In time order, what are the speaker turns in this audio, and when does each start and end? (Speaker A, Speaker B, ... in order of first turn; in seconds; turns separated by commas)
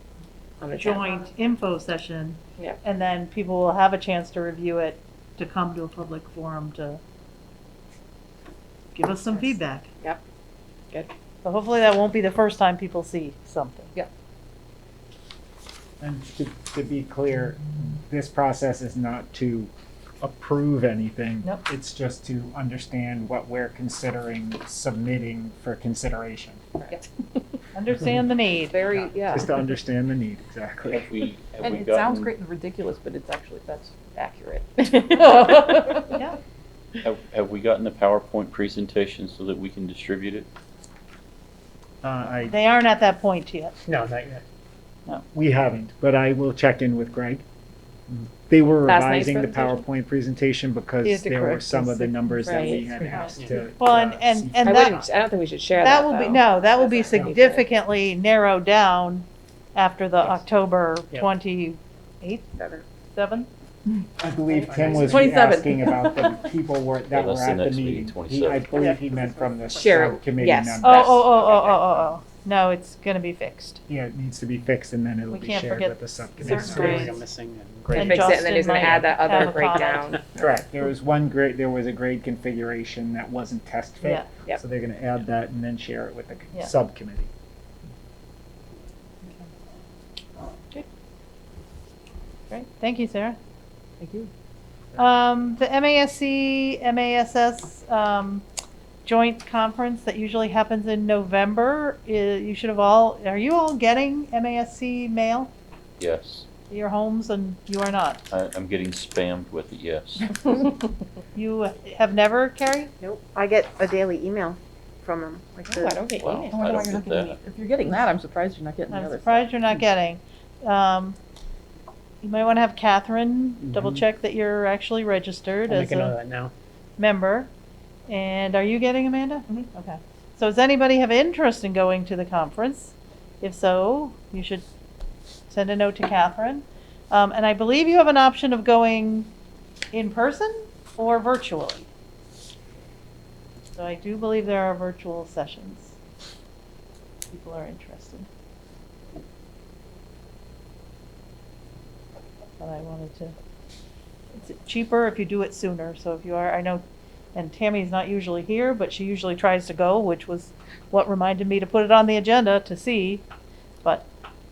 Speaker A: 0.6-1.2, Speaker B: 0.8-7.0, Speaker B: 8.9-9.9, Speaker A: 9.4-10.2, Speaker B: 11.4-13.9, Speaker C: 16.0-26.6, Speaker B: 27.7-28.8, Speaker C: 27.9-28.2, Speaker D: 28.7-29.5, Speaker C: 29.0-31.1, Speaker E: 30.9-32.3, Speaker D: 31.6-36.2, Speaker E: 37.0-40.5, Speaker C: 42.0-42.6, Speaker B: 42.5-43.8, Speaker F: 43.8-44.4, Speaker C: 45.3-47.4, Speaker C: 48.1-55.0, Speaker A: 48.9-49.8, Speaker A: 51.1-51.6, Speaker B: 51.8-52.5, Speaker A: 52.4-53.3, Speaker F: 53.1-53.7, Speaker B: 53.2-55.0, Speaker A: 54.6-57.7, Speaker B: 55.8-63.5, Speaker A: 62.6-62.9, Speaker C: 64.2-71.3, Speaker F: 64.5-65.3, Speaker D: 65.1-66.5, Speaker E: 67.1-68.7, Speaker F: 68.7-70.1, Speaker A: 69.8-71.3, Speaker B: 70.8-73.8, Speaker C: 73.9-77.2, Speaker B: 75.3-77.2, Speaker F: 76.4-78.3, Speaker C: 77.9-79.5, Speaker B: 77.9-80.1, Speaker A: 77.9-80.2, Speaker C: 80.3-87.3, Speaker B: 84.0-84.3, Speaker B: 92.5-93.4, Speaker D: 94.0-94.3, Speaker B: 95.0-98.5, Speaker B: 99.0-105.5, Speaker E: 106.0-106.5, Speaker B: 106.7-108.3, Speaker E: 108.3-110.7, Speaker B: 111.3-112.9, Speaker G: 113.2-116.0, Speaker A: 115.7-116.8, Speaker E: 116.2-117.4, Speaker D: 116.5-119.5, Speaker B: 118.9-121.2, Speaker B: 122.2-126.2, Speaker F: 123.6-124.1, Speaker F: 125.7-126.5, Speaker B: 127.0-127.5, Speaker B: 128.1-134.6, Speaker B: 135.5-139.3, Speaker B: 139.9-141.9, Speaker B: 143.8-145.9, Speaker B: 147.3-148.3, Speaker B: 152.6-153.3, Speaker B: 154.3-156.8, Speaker B: 157.3-163.2